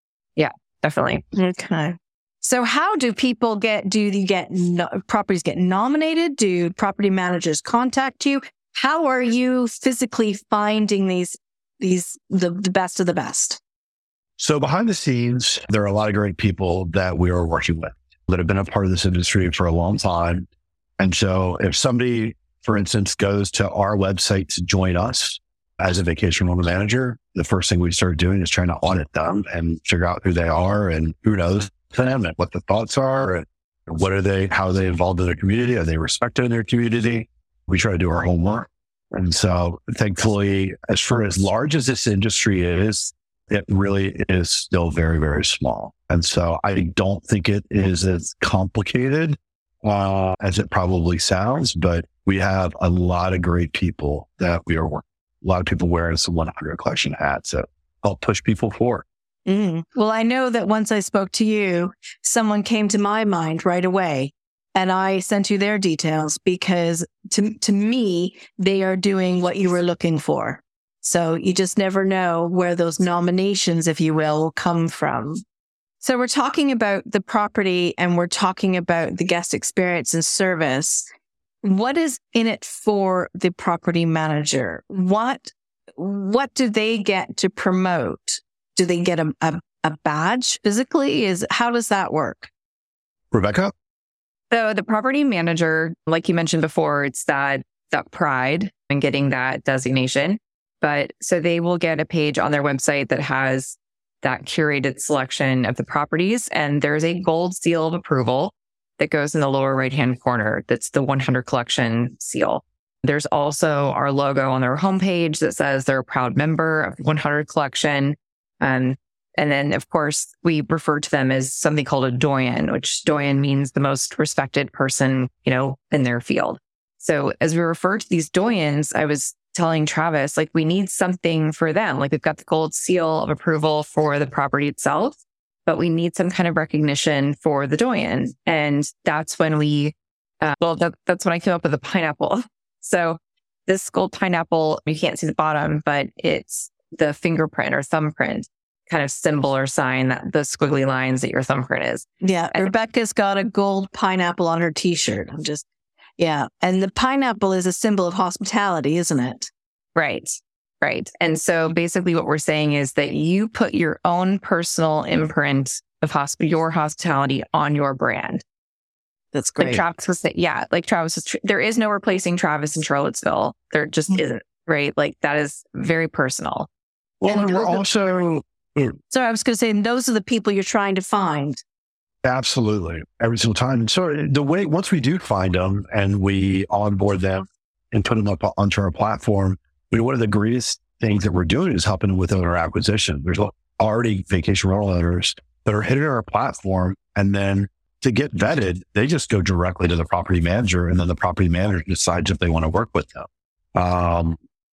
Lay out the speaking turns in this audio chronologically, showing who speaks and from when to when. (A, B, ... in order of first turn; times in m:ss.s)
0:00.4-0:01.2 A
0:01.3-0:13.6 B
0:14.4-0:20.5 C
0:21.0-0:59.0 C
0:59.5-1:15.4 B
1:16.0-1:21.1 B
1:21.6-1:32.5 B
1:33.3-1:33.7 C
1:34.5-2:32.7 A
2:32.2-2:35.6 B
2:36.2-2:39.5 B
2:40.0-2:48.4 A
2:49.3-2:49.8 B
2:49.6-2:56.7 A
2:57.2-2:59.0 C
2:57.3-2:57.8 B
2:59.1-3:01.6 B
3:02.2-3:24.4 C